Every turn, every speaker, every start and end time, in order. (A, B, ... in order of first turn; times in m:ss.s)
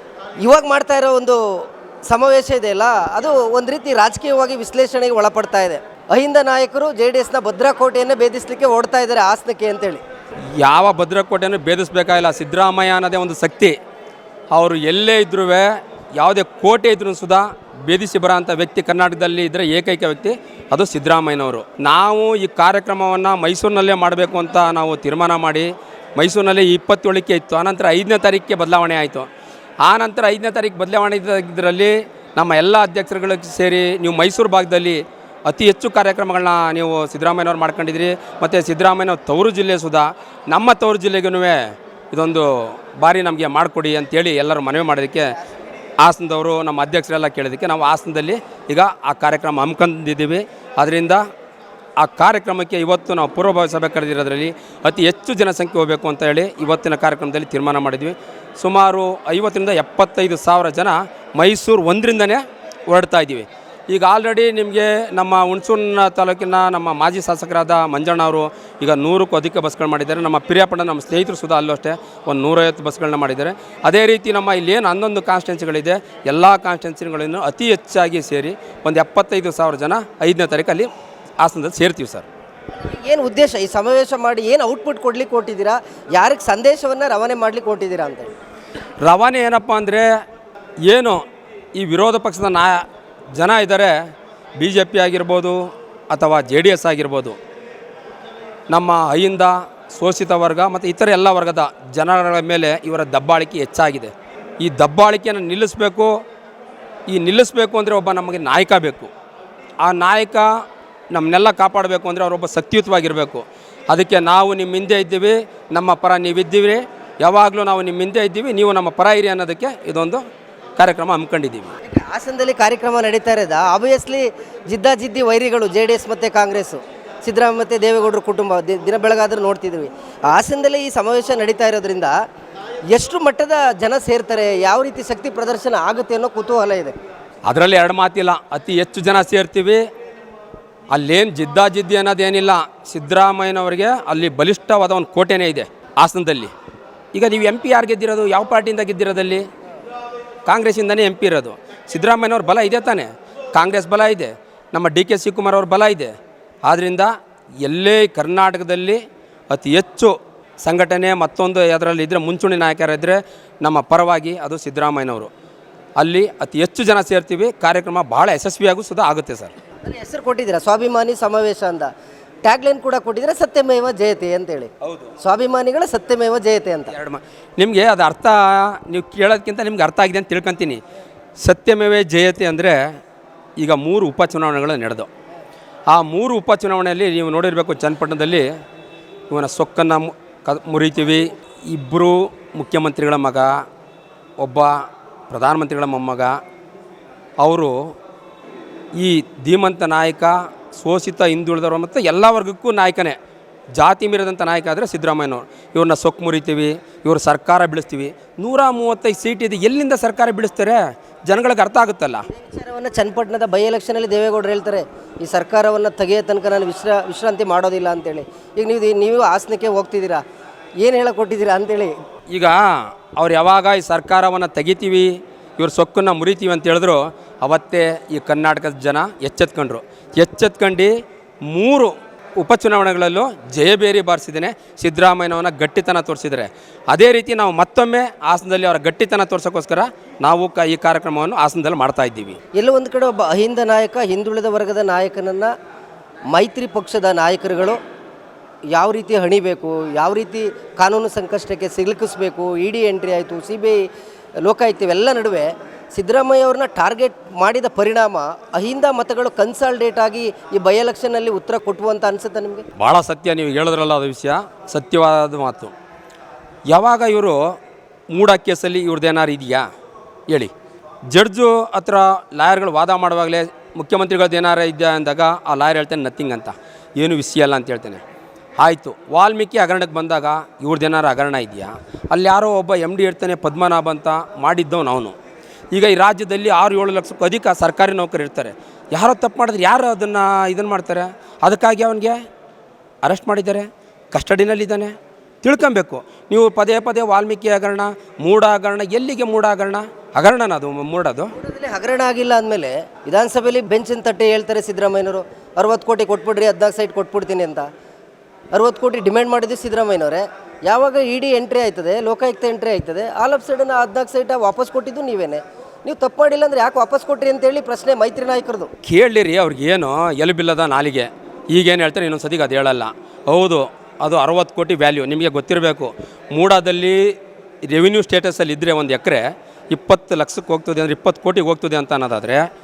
0:00.4-0:10.0 A
0:10.6-0:13.8 B
0:14.5-0:29.3 B
0:29.8-0:45.3 B
0:46.0-0:51.2 B
0:52.0-1:20.9 B
1:21.4-1:22.3 B
1:22.8-1:28.3 A
1:29.0-1:30.1 B
1:30.8-1:31.2 B
1:31.7-1:34.0 B
1:34.6-1:37.4 B
1:38.7-1:46.1 B
1:47.1-1:49.1 B
1:49.8-1:50.5 B
1:51.1-2:00.2 B
2:00.8-2:01.7 B
2:01.8-2:12.1 A
2:12.9-2:17.0 A
2:17.4-2:19.8 B
2:20.9-2:26.5 B
2:27.1-2:29.5 B
2:30.4-2:45.3 B
2:46.0-2:49.5 B
2:49.8-2:51.9 A
2:52.4-2:54.7 A
2:54.8-2:55.1 B
2:55.2-2:56.9 A
2:56.9-3:00.8 B
3:01.4-3:03.0 B
3:03.6-3:05.1 B
3:05.9-3:08.5 B
3:09.3-3:13.6 B
3:14.4-3:16.4 B
3:17.4-3:17.9 B
3:19.0-3:23.2 B
3:23.7-3:32.2 B
3:32.3-3:40.2 A
3:40.8-3:41.9 A
3:42.3-3:50.9 B
3:51.4-4:02.4 B
4:02.6-4:05.5 A
4:06.3-4:07.8 A
4:08.7-4:13.8 A
4:14.4-4:22.7 A
4:22.7-4:25.7 B
4:26.7-4:27.6 B
4:28.1-4:29.7 B
4:31.1-4:38.0 B
4:38.6-4:45.1 B
4:45.7-4:52.2 B
4:53.0-5:01.3 B
5:01.4-5:07.7 A
5:08.5-5:18.7 A
5:18.8-5:32.4 B